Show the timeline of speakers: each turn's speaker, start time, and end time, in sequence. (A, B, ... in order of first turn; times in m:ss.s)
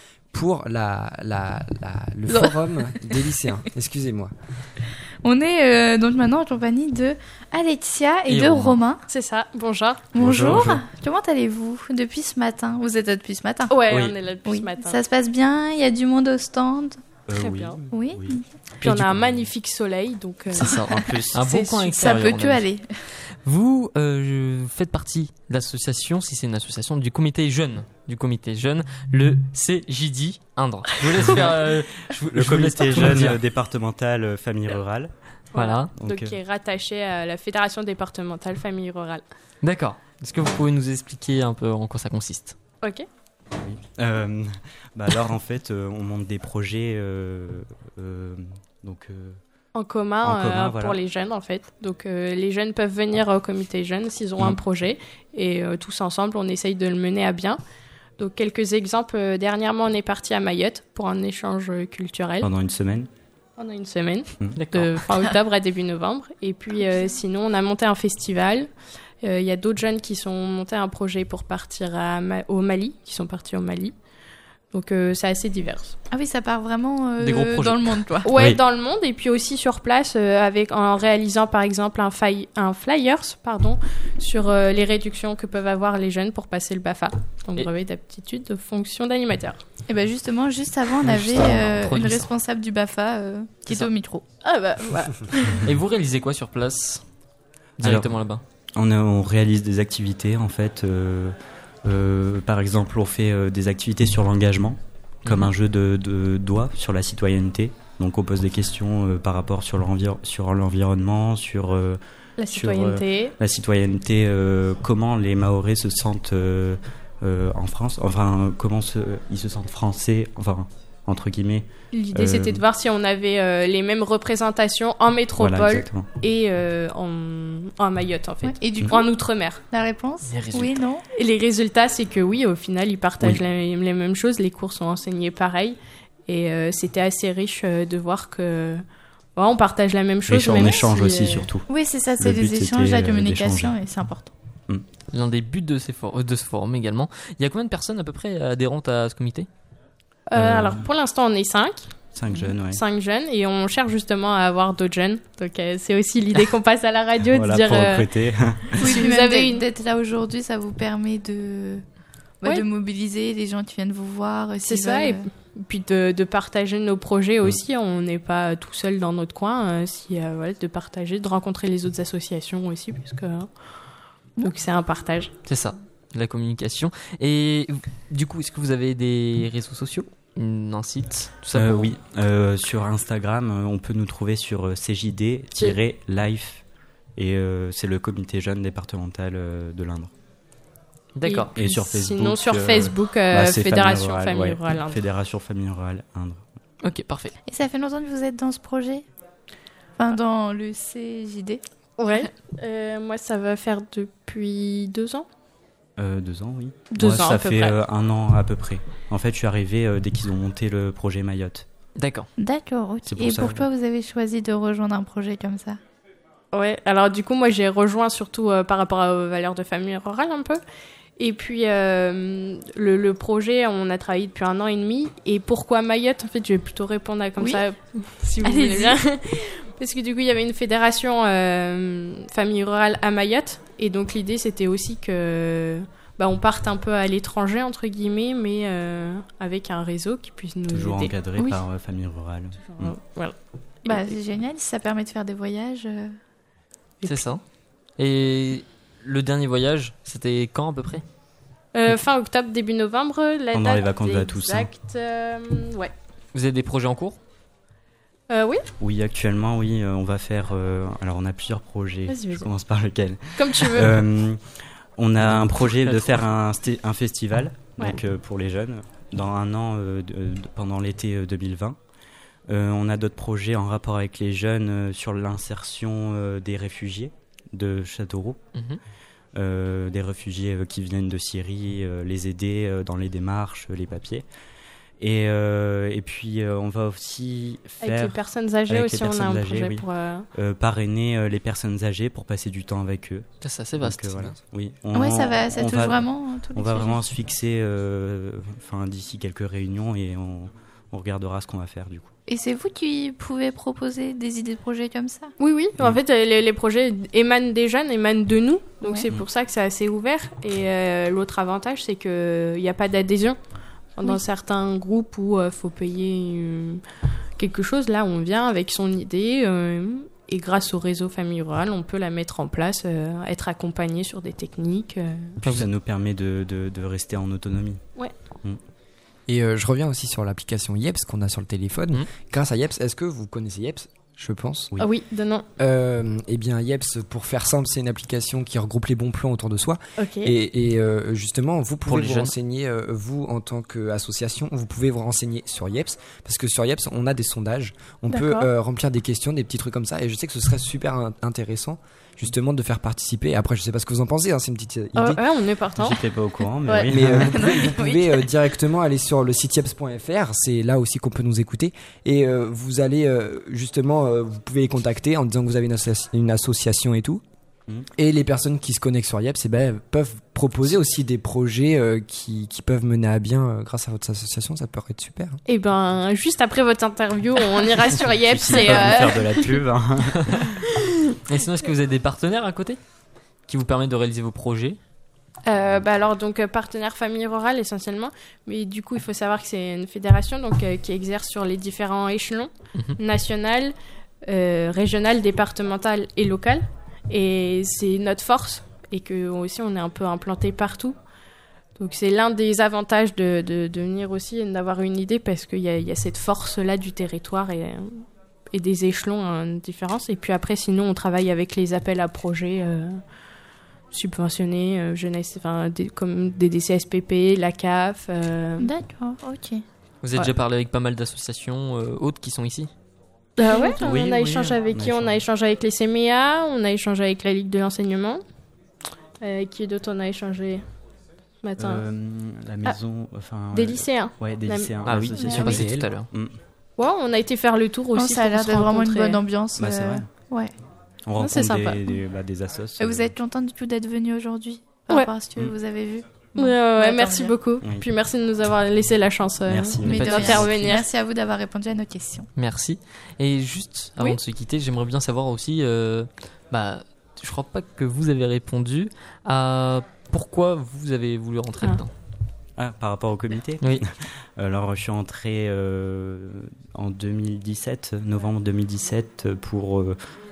0:00.3-0:04.3 A
0:05.2-0:09.0 B
0:08.3-0:08.8 C
0:09.1-0:10.2 D
0:10.1-0:13.8 B
0:10.2-0:10.8 E
0:13.7-0:15.0 D
0:13.9-0:14.2 E
0:14.4-0:17.0 B
0:17.3-0:19.5 E
0:17.4-0:17.8 D
0:17.9-0:18.5 B
0:18.8-0:20.8 D
0:20.6-0:22.7 C
0:20.8-0:23.0 B
0:23.3-0:33.4 C
0:32.3-0:35.1 E
0:35.5-0:39.2 D
0:35.6-0:35.9 C
0:36.0-0:36.4 E
0:39.6-0:42.6 C
0:43.5-0:49.4 E
0:49.7-0:57.6 D
0:50.2-0:51.0 E
0:58.2-1:02.5 D
1:02.4-1:03.1 E
1:03.6-1:08.7 D
1:04.6-1:05.0 C
1:09.2-1:13.9 D
1:14.7-1:16.0 D
1:16.1-1:18.3 B
1:17.2-1:18.0 C
1:18.2-1:29.6 D
1:29.9-1:34.2 B
1:31.0-1:32.3 C
1:34.4-1:35.6 D
1:35.6-1:37.0 C
1:37.8-1:38.4 C
1:37.8-1:38.1 E
1:38.8-1:41.3 E
1:41.8-1:52.0 E
1:45.2-1:45.5 C
1:52.4-1:53.3 D
1:52.5-2:02.6 E
2:01.9-2:09.6 D
2:05.4-2:06.1 E
2:08.4-2:09.0 B
2:09.7-2:11.0 B
2:10.3-2:10.8 C
2:11.1-2:18.8 D
2:19.4-2:21.5 D
2:20.3-2:21.7 E
2:21.7-2:24.3 B
2:22.2-2:23.8 E
2:25.1-2:29.5 C
2:30.3-2:31.9 D
2:30.4-2:30.9 E
2:32.1-2:32.8 E
2:32.4-2:38.1 D
2:37.3-2:38.8 E
2:38.8-2:41.8 B
2:38.8-2:39.7 D
2:42.4-2:45.2 B
2:44.7-2:53.5 D
2:54.4-2:55.3 D
2:55.5-3:01.9 C
3:01.6-3:06.6 E
3:07.2-3:10.1 E
3:11.2-3:11.5 C
3:11.2-3:15.0 D
3:11.6-3:16.4 E
3:16.8-3:17.4 C
3:17.4-3:19.0 B
3:20.0-3:21.6 B
3:22.0-3:25.2 D
3:26.0-3:31.6 E
3:26.9-3:27.8 D
3:32.0-3:32.3 C
3:32.4-3:35.8 B
3:33.0-3:33.7 E
3:36.5-3:40.6 D
3:41.2-4:01.2 D
3:47.4-3:47.6 B
3:48.4-3:49.0 B
4:00.7-4:03.0 E
4:02.7-4:04.2 D
4:03.8-4:06.2 B
4:07.0-4:07.4 C
4:08.0-4:11.0 C
4:11.7-4:15.9 D
4:13.5-4:14.7 E
4:16.3-4:17.2 C
4:18.3-4:18.6 D
4:18.8-4:24.4 E
4:22.1-4:22.5 D
4:23.4-4:24.0 D
4:25.0-4:31.8 E
4:25.7-4:26.1 C
4:32.5-4:38.4 E
4:38.6-4:38.8 C
4:39.4-4:44.3 E
4:45.0-4:53.3 E
4:47.8-4:50.3 D
4:53.4-4:54.3 C
4:53.8-5:02.1 E
4:54.1-4:54.4 A
4:54.9-4:57.0 B
5:02.3-5:05.3 B
5:05.4-5:13.4 D
5:08.8-5:09.1 B
5:14.0-5:16.8 D
5:17.4-5:25.4 D
5:25.4-5:25.7 C
5:25.4-5:27.8 E
5:29.3-5:34.7 A
5:34.8-5:35.5 D
5:35.6-5:55.2 A
5:40.0-5:40.3 D
5:41.9-5:42.3 C
5:48.1-5:48.5 D
5:55.0-5:56.0 D
5:55.8-5:57.4 E
5:56.6-5:56.9 D
5:56.9-6:07.2 A
5:57.2-5:58.2 B
6:08.0-6:15.4 A
6:15.5-6:19.6 D
6:18.2-6:20.5 E
6:21.3-6:22.8 C
6:23.5-6:24.8 C
6:25.4-6:33.7 D
6:34.2-6:41.0 D
6:41.8-6:48.0 D
6:48.5-6:53.0 D
6:53.9-6:58.7 D
6:58.6-6:59.6 B
7:00.0-7:02.7 C
7:03.4-7:08.2 D
7:03.5-7:03.8 B
7:03.8-7:05.2 E
7:09.2-7:10.6 D
7:11.4-7:11.8 D
7:11.6-7:16.4 E
7:13.5-7:15.6 D
7:14.8-7:16.1 C
7:15.1-7:15.6 B
7:15.4-7:15.9 A
7:16.8-7:19.2 D
7:17.9-7:20.5 B
7:19.6-7:20.1 E
7:21.0-7:23.1 E
7:21.2-7:21.8 D
7:22.8-7:27.4 B
7:26.4-7:30.9 D
7:29.5-7:30.7 E
7:29.8-7:30.4 C
7:29.9-7:32.3 B
7:32.4-7:41.9 C
7:42.6-7:43.9 E
7:44.4-7:50.0 E